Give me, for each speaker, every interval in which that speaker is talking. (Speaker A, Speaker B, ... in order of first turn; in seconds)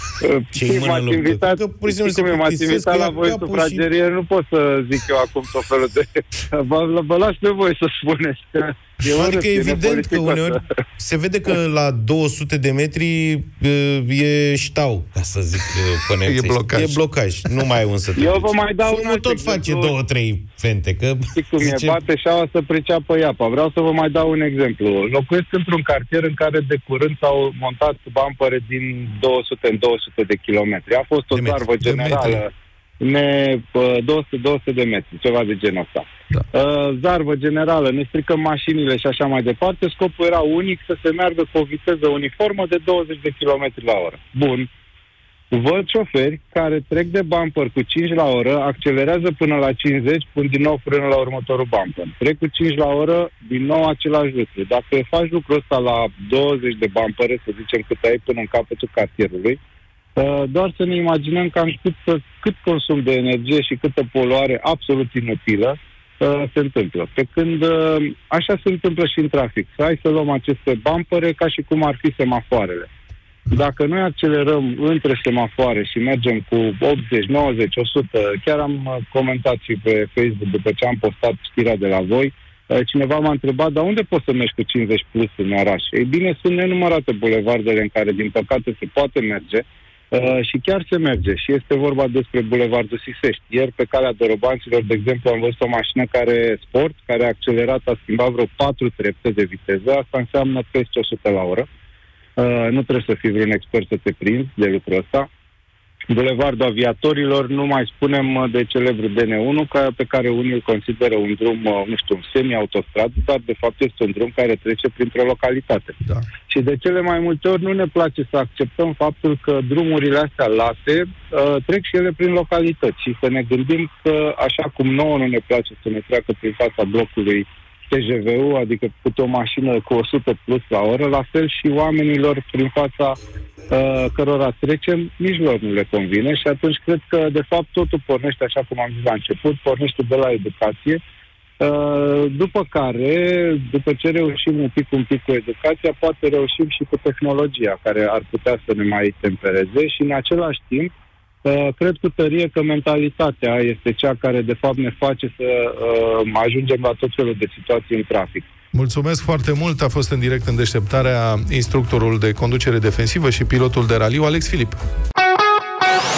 Speaker A: 0.2-10.6, 18.2-20.0, 21.4-44.7, 45.5-59.6, 60.2-72.9, 73.5-101.7, 102.4-105.3, 106.1-133.2, 133.7-141.0, 141.6-150.9, 151.4-158.5
Speaker B: 0.5-3.9, 9.1-22.0
Speaker C: 16.2-17.0, 31.8-32.4, 158.7-164.8